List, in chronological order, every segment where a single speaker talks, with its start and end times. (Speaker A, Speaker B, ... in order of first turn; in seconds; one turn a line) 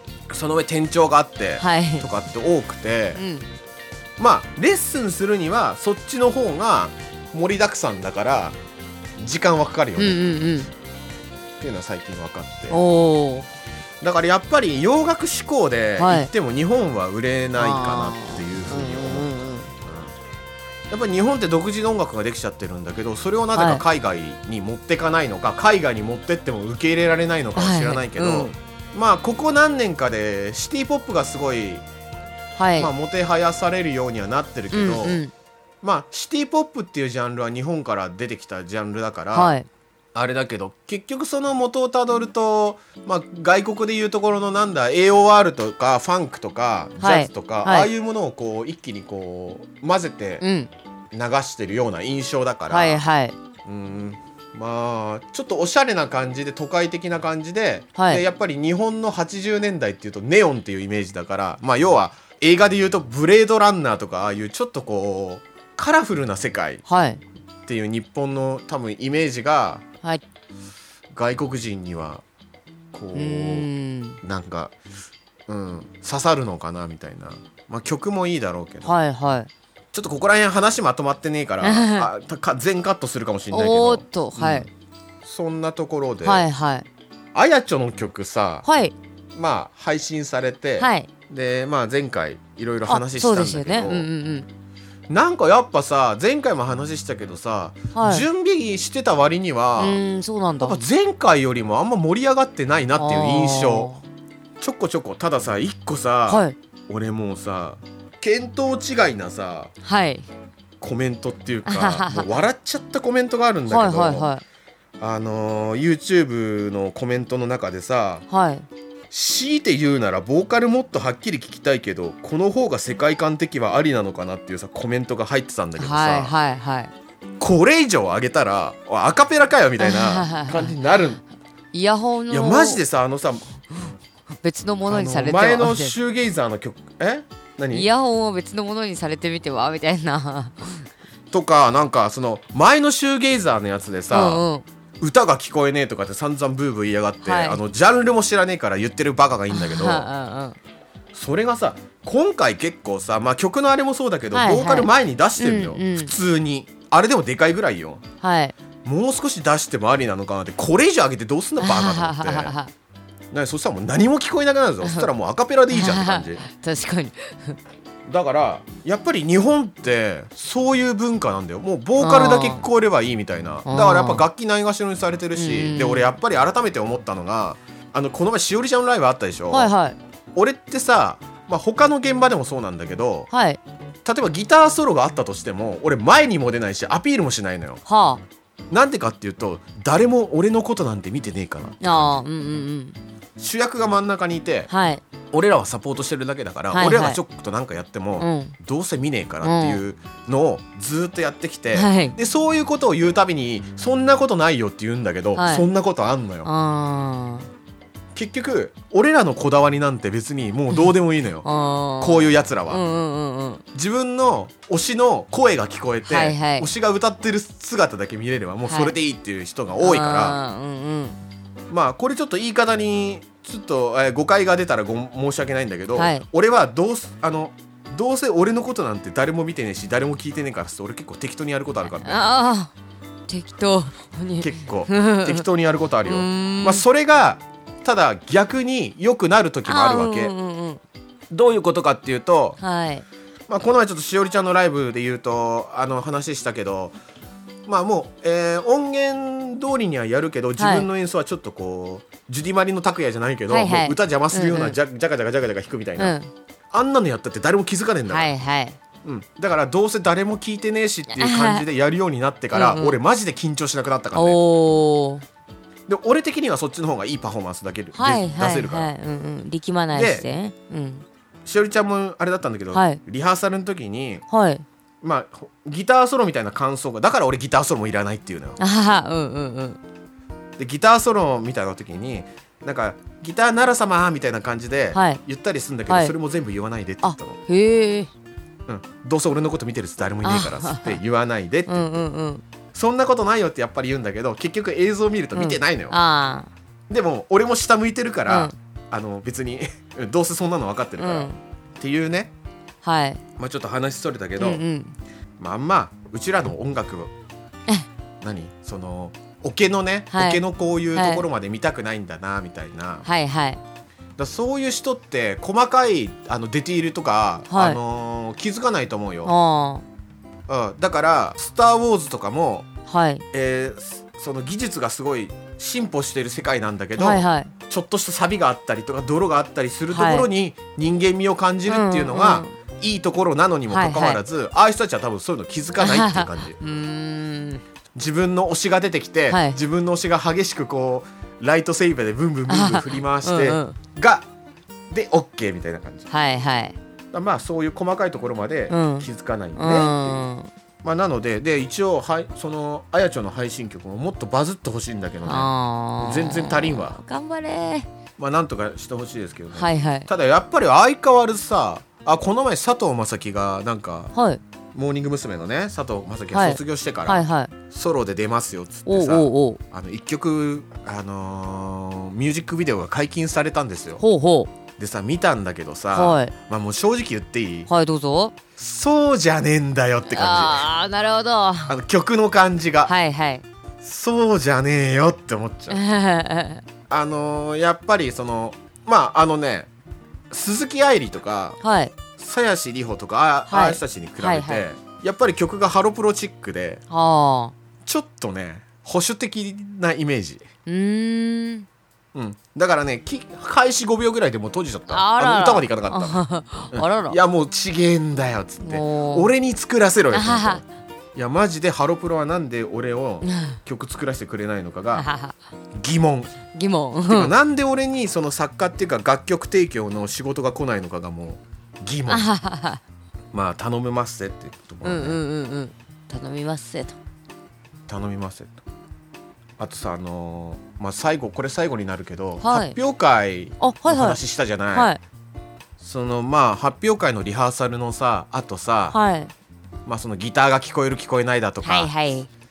Speaker A: 0.3-3.2
Speaker B: 1.6-2.1
Speaker B: 3.1-3.5
Speaker A: 4.2-8.6
Speaker A: 9.2-10.2
Speaker B: 10.0-10.7
Speaker A: 11.6-12.8
Speaker B: 12.7-13.5
Speaker A: 14.0-19.3
Speaker B: 16.0-16.3
Speaker B: 17.6-19.7
Speaker A: 19.8-20.1
Speaker A: 20.9-31.8
Speaker B: 23.5-23.8
Speaker B: 27.6-28.5
Speaker B: 32.5-32.9
Speaker A: 32.8-35.2
Speaker B: 34.7-35.3
Speaker A: 35.8-39.5
Speaker B: 39.3-39.7
Speaker A: 40.1-50.4
Speaker B: 47.0-47.9
Speaker B: 50.4-50.7
Speaker A: 51.1-53.0
Speaker B: 52.7-53.3
Speaker A: 53.6-66.8
Speaker B: 58.0-58.2
Speaker B: 66.9-67.2
Speaker A: 67.7-69.8
Speaker A: 71.1-72.2
Speaker A: 72.9-73.7
Speaker B: 73.1-74.2
Speaker A: 74.2-74.7
Speaker A: 75.5-78.9
Speaker B: 78.8-79.5
Speaker A: 79.9-84.7
Speaker B: 81.6-82.1
Speaker B: 83.5-84.7
Speaker A: 85.2-86.4
Speaker B: 86.2-86.9
Speaker A: 87.3-88.6
Speaker B: 88.6-88.9
Speaker A: 89.3-94.1
Speaker B: 90.8-91.1
Speaker B: 92.9-94.5
Speaker A: 95.1-100.0
Speaker B: 97.9-98.2
Speaker B: 99.8-100.8
Speaker A: 100.6-103.9
Speaker B: 103.0-104.0
Speaker A: 104.6-109.7
Speaker B: 106.3-106.5
Speaker B: 109.8-110.3
Speaker A: 110.8-114.3
Speaker B: 111.7-112.3
Speaker B: 113.7-114.4
Speaker A: 115.0-118.2
Speaker B: 118.3-118.7
Speaker A: 119.1-126.3
Speaker B: 125.8-126.9
Speaker A: 127.4-131.2
Speaker B: 129.8-130.7
Speaker B: 131.7-132.8
Speaker A: 132.3-133.5
Speaker B: 134.4-135.9
Speaker A: 134.9-137.9
Speaker B: 137.7-140.8
Speaker A: 141.3-144.4
Speaker B: 144.1-144.6
Speaker A: 145.0-150.1
Speaker B: 147.2-147.6
Speaker B: 149.5-150.6
Speaker A: 151.1-158.0
Speaker B: 154.3-156.1
Speaker B: 158.2-158.5
Speaker A: 158.8-162.5
Speaker B: 161.6-162.7
Speaker A: 163.3-166.4
Speaker B: 164.8-165.1
Speaker B: 165.7-167.6
Speaker A: 168.1-179.7
Speaker B: 172.0-172.6
Speaker B: 173.7-174.3
Speaker B: 175.3-176.1
Speaker B: 179.5-180.0
Speaker A: 180.3-183.3
Speaker B: 183.3-183.6
Speaker A: 184.0-187.8
Speaker B: 187.8-188.2
Speaker A: 188.7-192.2
Speaker B: 191.8-193.0
Speaker A: 193.4-194.7
Speaker B: 194.7-195.0
Speaker A: 195.3-206.5
Speaker B: 196.7-197.2
Speaker B: 198.2-198.6
Speaker B: 199.4-199.8
Speaker B: 201.7-202.2
Speaker B: 205.3-205.7
Speaker B: 206.4-207.5
Speaker A: 208.1-211.5
Speaker B: 211.4-213.6
Speaker A: 212.0-212.8
Speaker A: 213.7-220.4
Speaker B: 216.0-216.7
Speaker B: 218.7-218.9
Speaker B: 219.8-221.2
Speaker A: 221.7-232.2
Speaker B: 225.9-226.2
Speaker B: 231.9-232.7
Speaker B: 233.3-235.4
Speaker A: 234.4-240.3
Speaker B: 236.0-236.8
Speaker B: 239.6-240.8
Speaker A: 241.3-242.6
Speaker B: 242.6-243.0
Speaker A: 243.5-246.9
Speaker A: 247.7-256.1
Speaker B: 250.6-250.9
Speaker B: 253.5-254.8
Speaker B: 256.0-256.3
Speaker A: 256.7-258.3
Speaker B: 258.1-258.8
Speaker A: 259.0-264.4
Speaker B: 261.1-261.6
Speaker B: 262.5-263.0
Speaker B: 264.1-265.2
Speaker A: 265.9-268.9
Speaker B: 267.9-271.1
Speaker A: 269.9-270.3
Speaker A: 271.4-274.2
Speaker B: 272.7-273.0
Speaker B: 274.3-274.6
Speaker A: 275.0-278.6
Speaker B: 278.6-279.8
Speaker A: 280.6-287.4
Speaker B: 284.9-285.2
Speaker B: 285.9-286.1
Speaker B: 287.0-288.1
Speaker A: 288.7-291.9
Speaker B: 290.2-291.0
Speaker B: 291.7-292.4
Speaker A: 292.7-295.9
Speaker B: 295.3-296.5
Speaker A: 296.9-302.3
Speaker B: 298.2-298.5
Speaker B: 301.0-301.4
Speaker B: 302.8-303.2
Speaker A: 303.4-304.6
Speaker B: 304.4-304.9
Speaker A: 305.4-307.1
Speaker A: 308.2-313.1
Speaker B: 310.1-310.4
Speaker B: 310.9-311.2
Speaker B: 313.0-313.6
Speaker A: 314.2-319.3
Speaker B: 317.5-317.8
Speaker B: 319.2-319.8
Speaker A: 320.5-322.7
Speaker B: 322.9-323.2
Speaker A: 323.3-336.6
Speaker B: 327.0-327.5
Speaker B: 329.9-330.3
Speaker B: 331.7-332.5
Speaker B: 333.7-334.2
Speaker B: 335.8-337.6
Speaker A: 337.9-344.3
Speaker B: 339.3-339.6
Speaker B: 342.5-343.8
Speaker A: 344.9-346.1
Speaker B: 346.1-346.8
Speaker A: 347.1-350.2
Speaker B: 348.7-350.5
Speaker A: 350.8-357.0
Speaker B: 355.2-357.9
Speaker A: 358.2-364.1
Speaker B: 359.6-360.1
Speaker B: 364.1-364.4
Speaker A: 364.7-374.0
Speaker B: 366.3-367.5
Speaker B: 368.9-369.6
Speaker B: 374.0-374.5
Speaker A: 374.8-377.7
Speaker B: 375.9-376.3
Speaker B: 377.7-378.3
Speaker A: 378.6-380.7
Speaker B: 380.1-381.7
Speaker A: 381.7-382.9
Speaker B: 382.8-383.4
Speaker A: 383.8-385.8
Speaker B: 385.7-386.6
Speaker A: 386.9-389.7
Speaker A: 390.3-391.6
Speaker B: 391.6-391.9
Speaker A: 392.1-396.8
Speaker B: 393.5-394.6
Speaker B: 396.9-397.5
Speaker A: 397.8-400.4
Speaker B: 400.6-401.7
Speaker A: 402.1-415.1
Speaker B: 404.9-407.2
Speaker B: 408.6-409.3
Speaker B: 410.1-410.6
Speaker B: 413.2-413.6
Speaker B: 414.9-415.4
Speaker A: 415.8-416.4
Speaker B: 416.5-417.3
Speaker A: 417.1-422.3
Speaker B: 422.1-422.8
Speaker A: 423.3-425.2
Speaker B: 424.8-427.0
Speaker A: 427.9-428.6
Speaker A: 429.6-434.9
Speaker B: 432.4-432.8
Speaker B: 433.6-434.2
Speaker B: 434.7-435.0
Speaker A: 435.8-439.0
Speaker B: 438.9-439.3
Speaker A: 439.9-441.9
Speaker B: 441.6-442.3